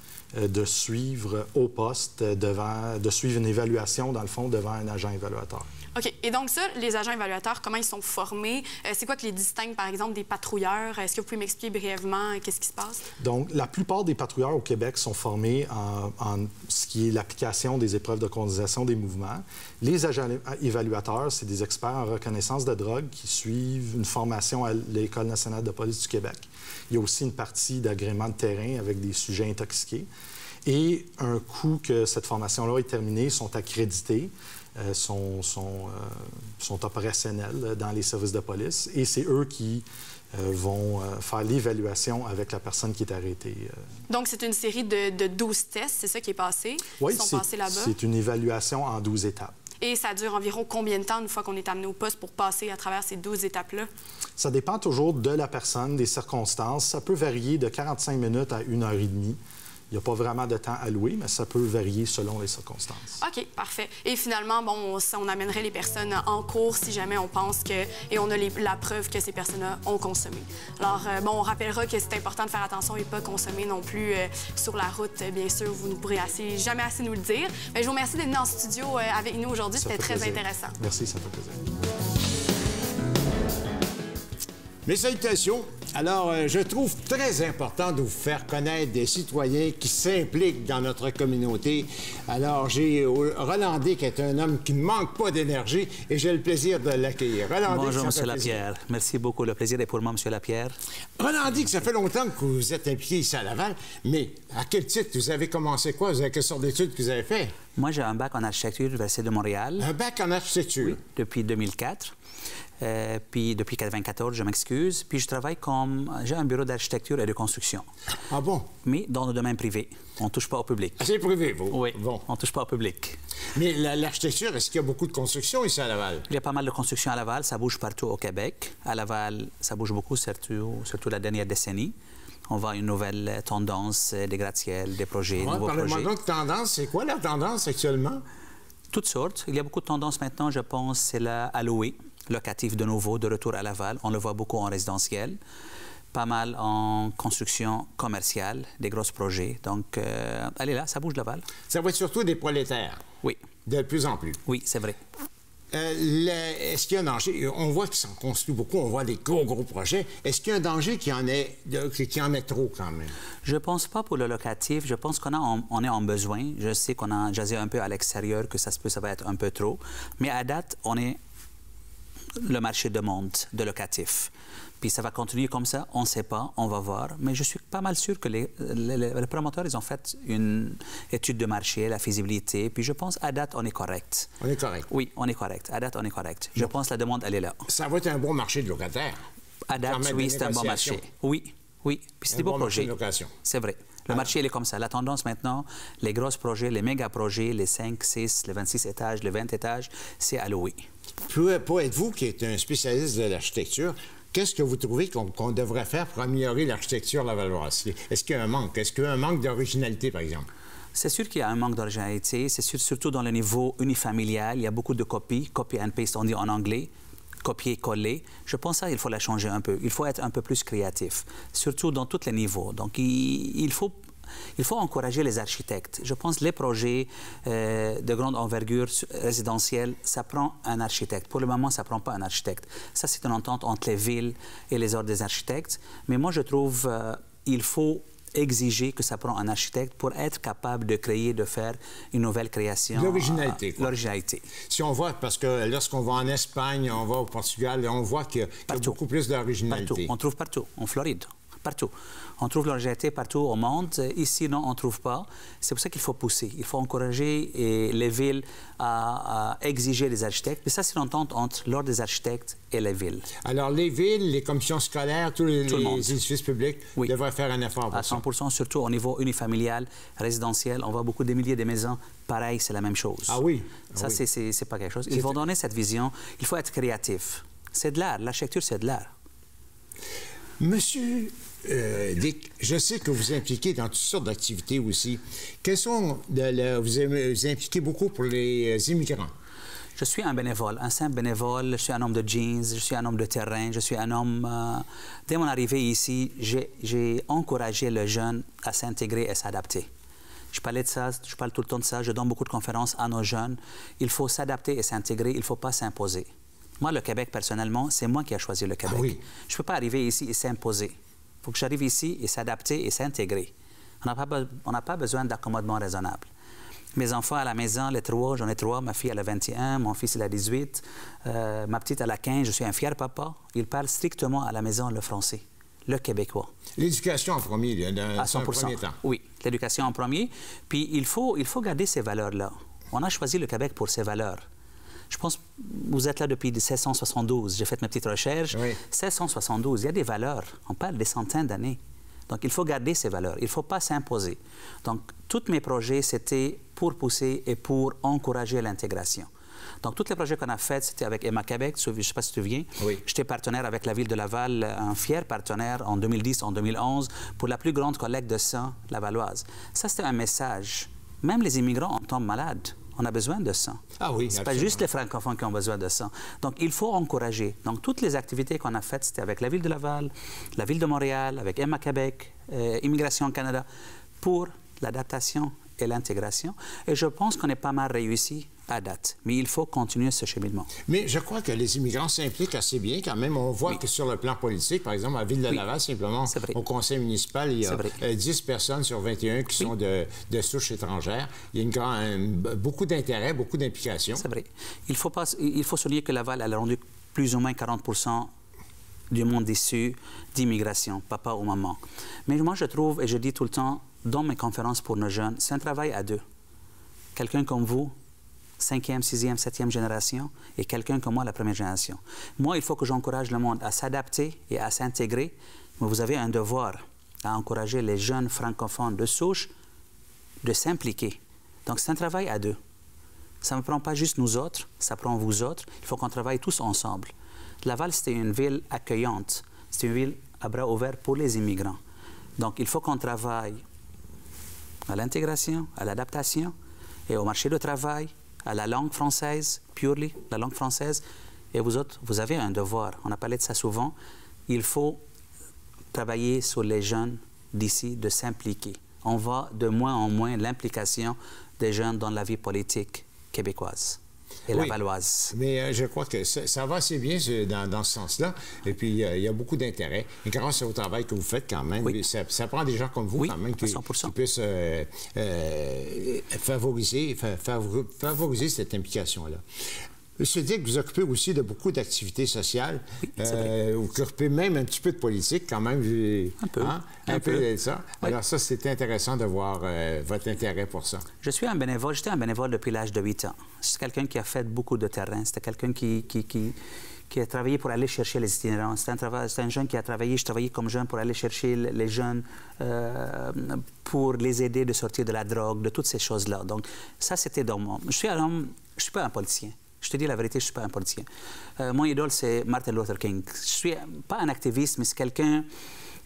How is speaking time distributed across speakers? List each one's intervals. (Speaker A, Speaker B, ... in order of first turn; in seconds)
Speaker A: 0.4-5.7, 13.2-30.1, 30.7-43.8, 47.0-49.5, 54.4-59.4, 59.9-63.1, 79.8-81.6
Speaker B: 6.0-13.0, 44.1-48.0, 49.8-53.9, 63.2-80.8
Speaker C: 84.9-98.6, 101.2-107.6, 109.8-111.0, 118.3-118.7, 121.0-122.2, 123.5-126.3, 135.3-138.2, 151.7-153.0, 153.7-154.4, 155.7-163.1, 184.4-184.9, 187.7-189.2, 189.8-191.1, 192.3-193.3, 201.2-210.5, 242.9-243.9, 244.7-250.1, 263.4-268.2, 273.3-274.2, 275.1-275.4, 280.6-289.3, 308.9-309.2, 326.8-329.0, 338.5-338.8, 364.0-364.8, 380.9-394.2, 455.3-469.4, 470.2-481.0
Speaker D: 97.7-100.8, 107.8-109.9, 110.8-112.1, 112.8-117.9, 118.8-121.0, 121.7-123.2, 126.3-131.9, 132.5-136.1, 138.9-145.4, 146.1-151.4, 154.5-155.0, 163.4-171.2, 172.4-174.3, 174.8-184.3, 184.9-187.6, 189.7-192.9, 193.4-200.8, 210.9-216.9, 217.4-224.0, 224.6-244.4, 248.7-249.0, 249.7-263.3, 265.7-266.1, 267.9-273.4, 274.0-279.1, 290.0-299.9, 300.5-306.3, 306.8-313.5, 314.0-316.3, 317.0-326.5, 328.2-334.4, 335.1-349.3, 349.8-363.8, 364.3-373.7, 374.2-380.7, 386.3-386.6, 387.6-388.0, 394.2-398.3, 399.1-406.2, 407.2-407.9, 408.6-419.5, 420.4-422.6, 423.4-427.1, 427.6-431.8, 432.4-433.6, 434.9-436.5, 437.1-441.0, 441.5-443.9, 444.5-445.0, 445.9-454.0, 454.5-455.3, 463.2-464.1, 473.2-473.5, 476.4-477.5, 481.2-486.6, 487.1-501.1, 501.6-505.5